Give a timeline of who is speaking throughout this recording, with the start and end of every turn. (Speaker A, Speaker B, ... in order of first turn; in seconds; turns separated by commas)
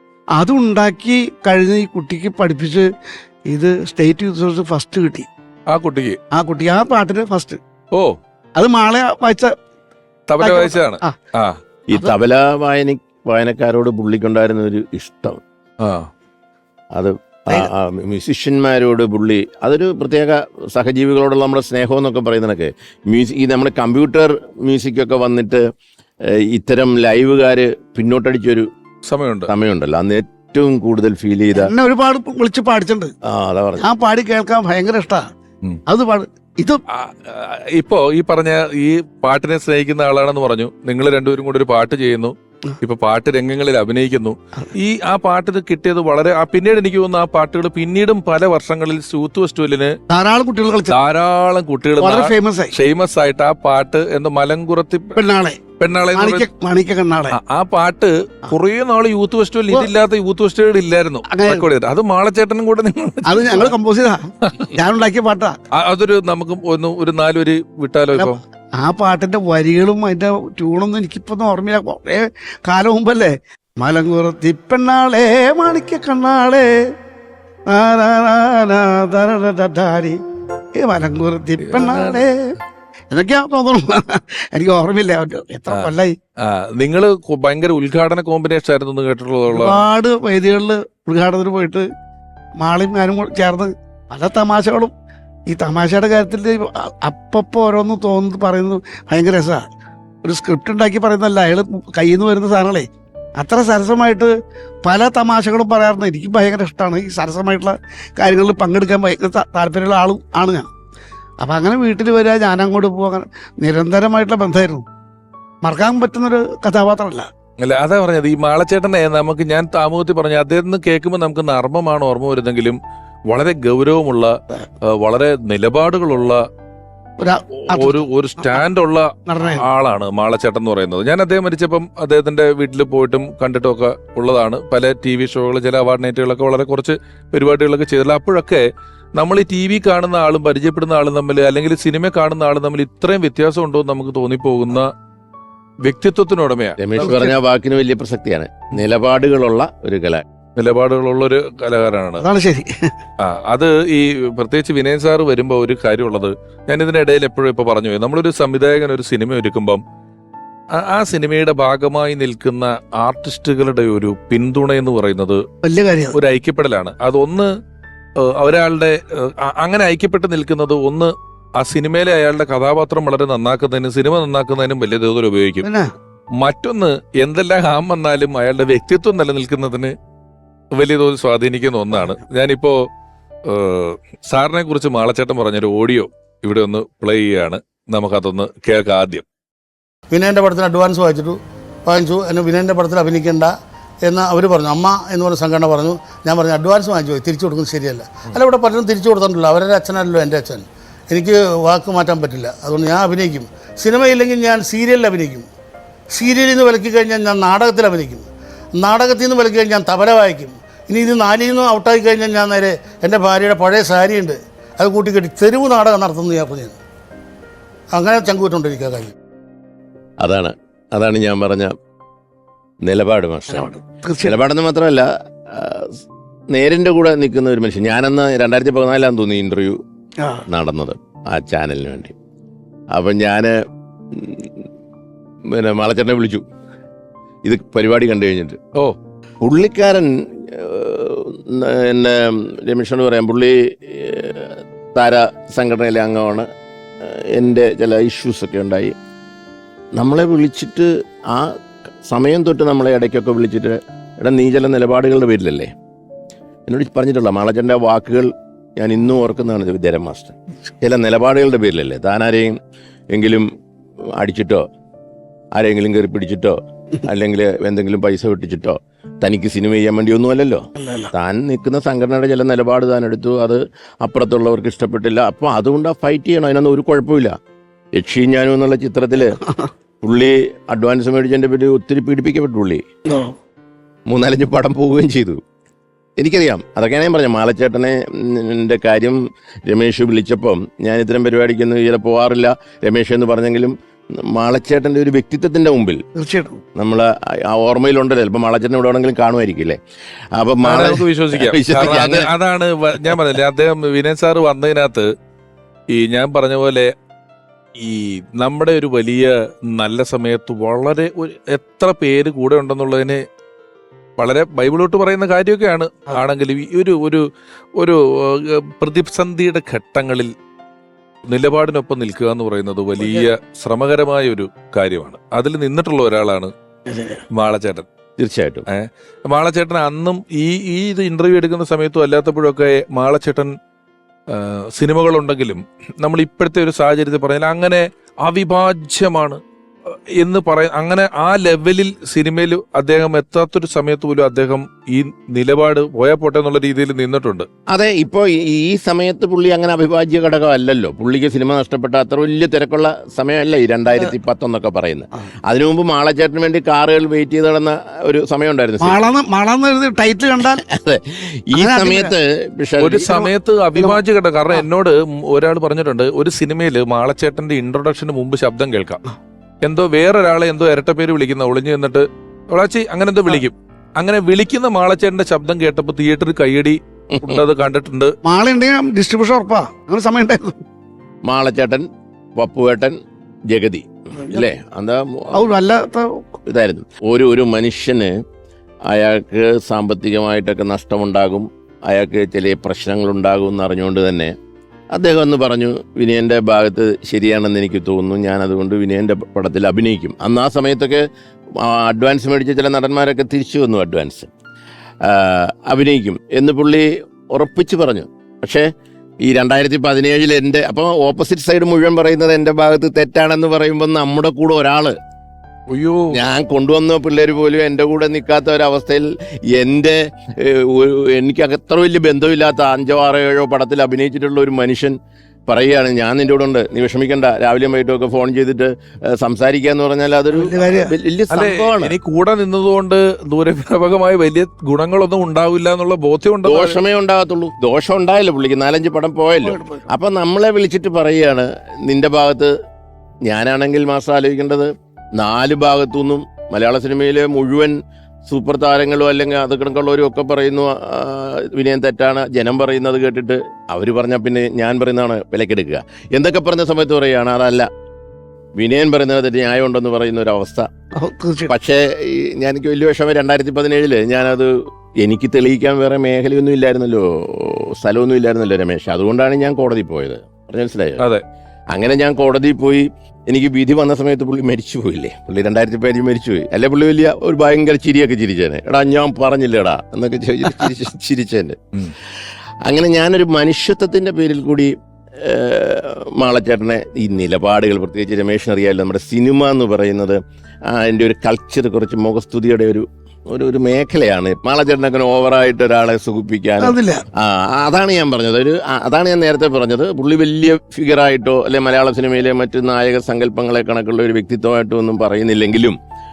Speaker A: 0.4-2.8, Speaker A: 3.5-5.3, Speaker B: 5.7-6.2, Speaker A: 6.3-7.6, Speaker A: 8.6-9.5, Speaker B: 10.3-11.6, Speaker A: 10.4-11.2, Speaker C: 11.9-15.4, Speaker B: 15.8-16.1, Speaker C: 16.9-25.7, Speaker C: 26.2-28.7, Speaker B: 29.1-29.5, Speaker C: 29.5-31.7, Speaker A: 31.6-33.1, Speaker C: 33.2-33.9, Speaker A: 33.8-35.3, Speaker A: 35.9-36.8, Speaker B: 36.9-49.9, Speaker A: 50.1-50.9, Speaker B: 50.9-55.2, Speaker A: 52.0-52.7, Speaker A: 55.2-55.6, Speaker B: 55.8-56.5, Speaker A: 56.1-57.4, Speaker B: 57.3-63.7, Speaker A: 61.3-61.7, Speaker A: 63.2-65.6, Speaker B: 64.4-64.7, Speaker B: 65.7-68.4, Speaker A: 68.2-76.8, Speaker A: 77.7-80.2, Speaker A: 80.8-82.6, Speaker B: 81.6-82.2, Speaker A: 83.1-86.2, Speaker B: 86.4-89.8, Speaker A: 89.5-91.9, Speaker A: 92.6-94.9, Speaker A: 95.5-99.7, Speaker A: 100.2-104.3, Speaker A: 104.8-110.7, Speaker A: 111.4-114.8, Speaker A: 115.6-117.3, Speaker B: 117.6-122.8, Speaker B: 123.3-126.4, Speaker A: 127.2-128.6, Speaker B: 127.7-138.6, Speaker A: 129.3-129.6, Speaker B: 139.2-144.9, Speaker B: 145.8-146.8, Speaker C: 146.8-150.2, Speaker B: 150.6-152.2, Speaker A: 152.2-152.9, Speaker B: 153.2-159.8, Speaker B: 160.7-165.4, Speaker A: 165.6-166.2, Speaker B: 166.1-167.5, Speaker B: 168.2-175.7, Speaker A: 175.6-175.9, Speaker B: 176.4-179.9, Speaker B: 180.7-182.8, Speaker B: 183.5-189.2, Speaker D: 190.1-205.5, Speaker D: 206.1-216.8, Speaker D: 217.9-219.1, Speaker C: 220.2-221.7, Speaker C: 222.8-223.7, Speaker A: 223.5-224.3, Speaker C: 224.2-226.0, Speaker C: 226.5-229.8, Speaker C: 230.5-232.1, Speaker C: 232.9-233.6, Speaker C: 234.1-234.6, Speaker C: 235.5-236.4, Speaker C: 237.4-238.6, Speaker C: 239.4-246.4, Speaker C: 247.0-248.9, Speaker C: 249.9-251.5, Speaker C: 252.1-255.7, Speaker C: 256.7-262.6, Speaker C: 263.1-263.5, Speaker C: 264.1-264.7, Speaker C: 265.6-277.4, Speaker A: 270.8-271.1, Speaker C: 277.9-279.4, Speaker C: 280.0-282.8, Speaker A: 283.1-283.3, Speaker C: 284.1-285.4, Speaker C: 286.2-296.0, Speaker A: 296.2-296.6, Speaker C: 296.8-299.8, Speaker C: 300.3-302.3, Speaker B: 300.6-305.1, Speaker B: 305.9-306.9, Speaker B: 307.8-313.2, Speaker B: 314.2-317.2, Speaker B: 317.8-320.3, Speaker B: 321.3-326.5, Speaker A: 326.9-327.2, Speaker B: 327.3-327.9, Speaker C: 328.2-328.7, Speaker B: 328.7-333.5, Speaker B: 334.3-339.4, Speaker B: 340.2-347.5, Speaker C: 347.7-359.1, Speaker A: 358.8-360.6, Speaker C: 360.5-363.1, Speaker A: 361.5-362.1, Speaker B: 362.8-369.0, Speaker A: 363.1-364.0, Speaker B: 369.6-378.1, Speaker C: 377.1-377.4, Speaker A: 378.2-380.6, Speaker C: 381.2-381.8, Speaker C: 382.4-382.9, Speaker C: 383.5-385.5, Speaker A: 384.2-384.4, Speaker A: 385.3-386.1, Speaker C: 386.4-388.1, Speaker C: 388.9-394.3, Speaker C: 394.9-401.1, Speaker C: 401.6-404.3, Speaker C: 405.1-408.7, Speaker C: 409.2-414.9, Speaker B: 415.7-416.2, Speaker C: 416.1-424.9, Speaker C: 425.5-431.9, Speaker A: 430.3-430.9, Speaker B: 431.3-436.8, Speaker C: 436.4-442.5, Speaker A: 439.4-439.8, Speaker C: 443.2-447.8, Speaker C: 448.3-457.7, Speaker C: 458.6-460.7, Speaker A: 460.9-461.5, Speaker C: 461.5-471.0, Speaker C: 471.7-481.9, Speaker C: 482.7-505.8, Speaker A: 496.6-497.0